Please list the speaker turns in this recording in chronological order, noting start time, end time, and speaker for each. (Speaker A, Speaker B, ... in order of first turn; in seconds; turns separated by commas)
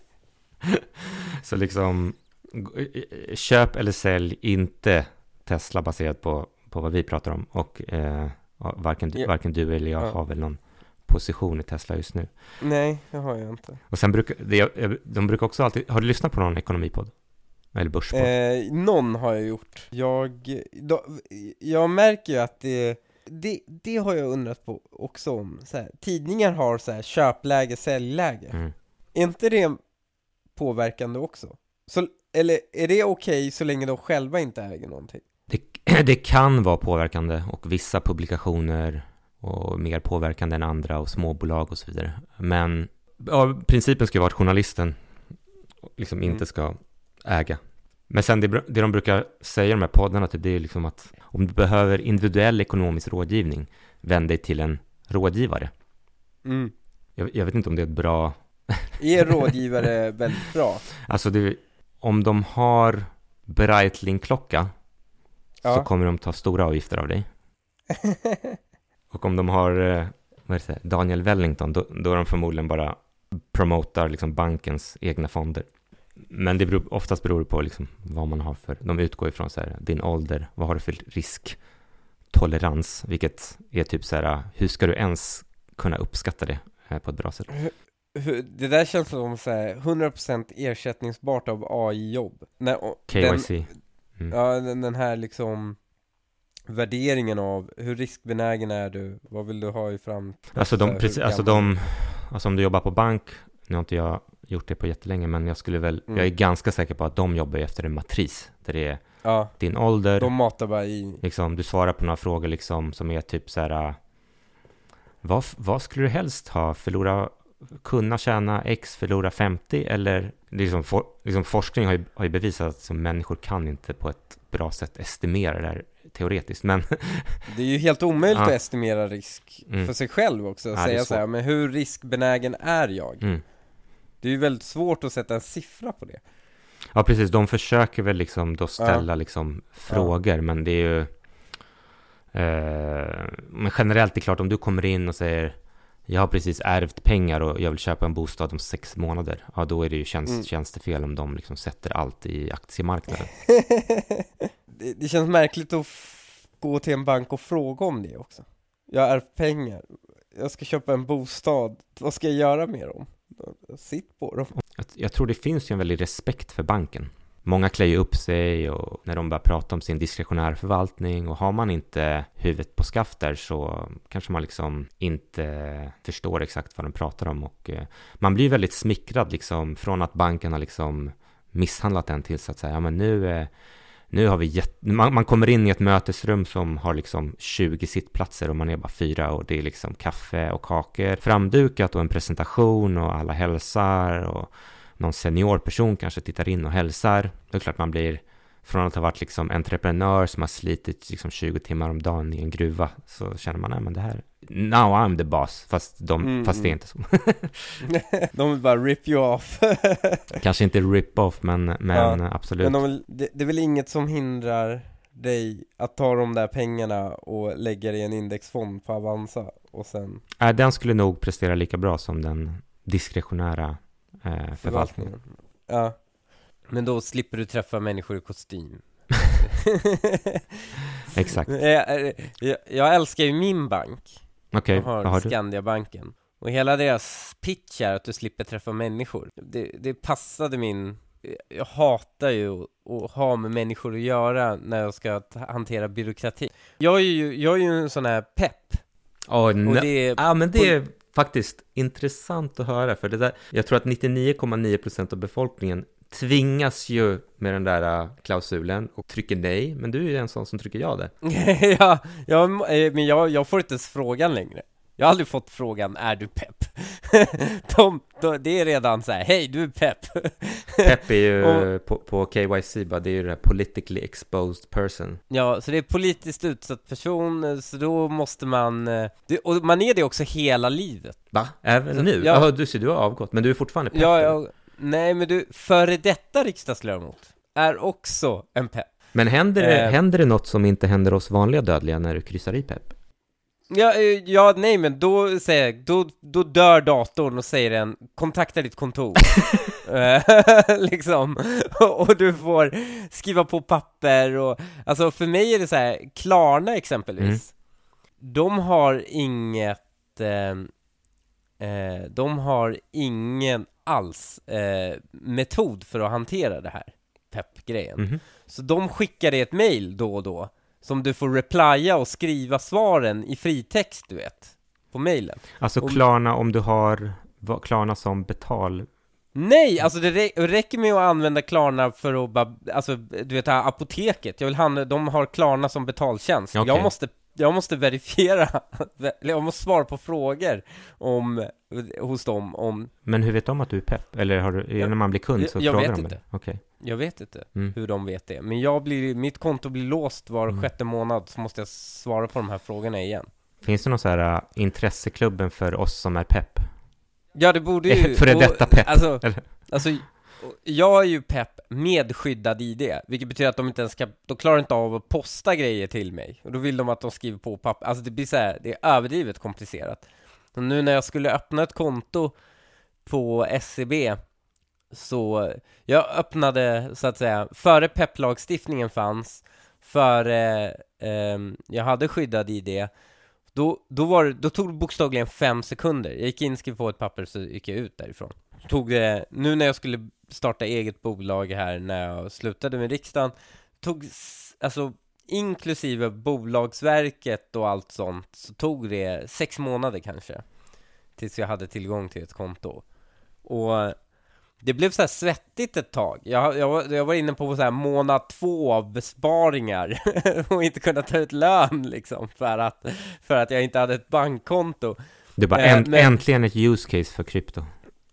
Speaker A: 0.6-12.3, Speaker B: 12.6-13.8, Speaker A: 13.9-17.1, Speaker A: 17.7-18.3, Speaker B: 18.1-28.6, Speaker B: 29.1-29.8, Speaker B: 30.6-35.2, Speaker A: 35.5-45.0, Speaker A: 46.0-47.6, Speaker A: 48.1-55.7, Speaker B: 56.5-56.7, Speaker A: 57.2-59.4, Speaker B: 59.0-60.9, Speaker A: 61.0-64.7, Speaker A: 65.6-67.3, Speaker B: 67.9-68.6, Speaker A: 69.1-75.7, Speaker A: 76.2-81.6, Speaker A: 82.3-87.5, Speaker B: 87.5-93.5, Speaker A: 93.1-94.3, Speaker B: 94.3-95.8, Speaker B: 96.7-101.7, Speaker A: 100.5-109.0, Speaker B: 109.2-109.5, Speaker A: 109.6-110.3, Speaker B: 110.2-111.2, Speaker A: 111.2-114.0, Speaker A: 115.2-127.5, Speaker B: 127.5-133.3, Speaker A: 130.7-131.2, Speaker B: 134.2-136.2, Speaker A: 136.9-141.1, Speaker B: 138.8-139.1, Speaker A: 142.3-145.6, Speaker A: 146.1-153.3, Speaker B: 153.5-164.5, Speaker A: 164.8-183.5, Speaker A: 184.1-207.8, Speaker B: 206.2-206.8, Speaker B: 207.8-210.4, Speaker A: 210.4-212.8, Speaker B: 211.9-220.2, Speaker A: 220.4-225.1, Speaker B: 224.6-226.0, Speaker B: 226.7-230.4, Speaker A: 231.1-231.6, Speaker B: 231.3-234.2, Speaker A: 234.5-235.3, Speaker B: 234.7-248.8, Speaker A: 249.3-261.1, Speaker B: 249.7-250.8, Speaker B: 261.2-271.7, Speaker A: 270.8-275.2, Speaker B: 275.3-281.2, Speaker A: 281.3-284.4, Speaker B: 281.9-282.5, Speaker B: 283.9-288.9, Speaker A: 289.1-292.9, Speaker B: 289.6-290.0, Speaker B: 293.7-307.5, Speaker B: 308.2-310.7, Speaker B: 311.6-326.0, Speaker A: 325.6-328.9, Speaker B: 329.4-342.9, Speaker A: 336.6-336.9, Speaker A: 343.1-346.6, Speaker B: 344.8-353.3, Speaker A: 353.6-356.7, Speaker B: 357.4-372.4, Speaker A: 357.9-359.4, Speaker B: 373.1-374.2, Speaker B: 374.9-382.9, Speaker B: 383.6-400.4, Speaker B: 401.2-402.9, Speaker B: 403.4-404.0, Speaker B: 404.6-415.0, Speaker A: 415.4-417.7, Speaker B: 415.5-416.2